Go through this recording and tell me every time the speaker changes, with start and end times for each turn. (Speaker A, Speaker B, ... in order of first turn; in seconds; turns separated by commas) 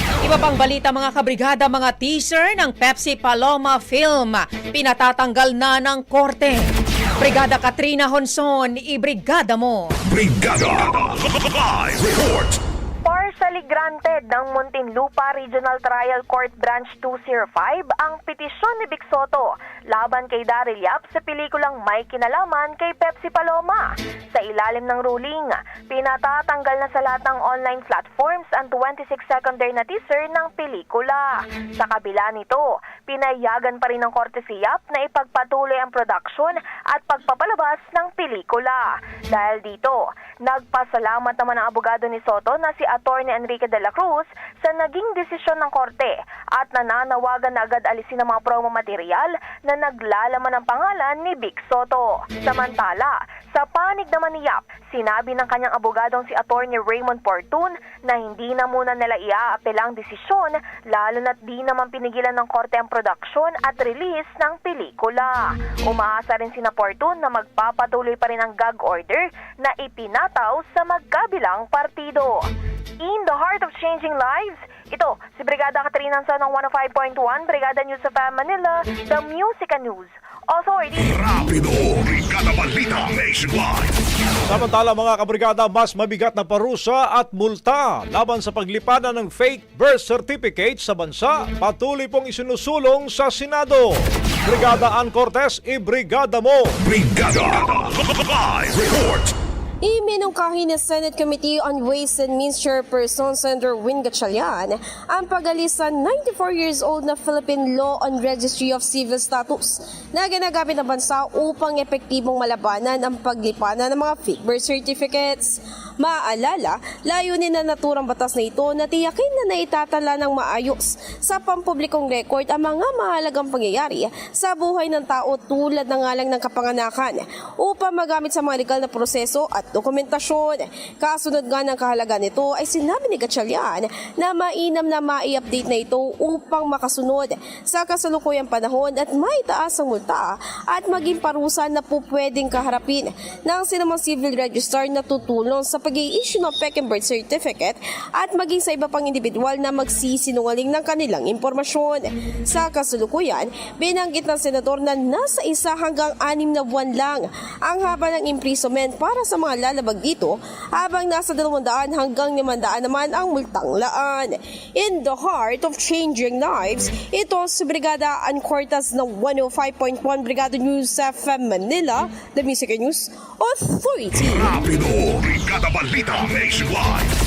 Speaker A: 0.2-9.9, Speaker B: 10.1-12.6, Speaker C: 13.1-72.5, Speaker C: 73.0-81.5, Speaker B: 81.0-83.9, Speaker D: 84.5-96.8, Speaker B: 96.8-99.3, Speaker E: 99.8-174.6, Speaker B: 174.2-177.1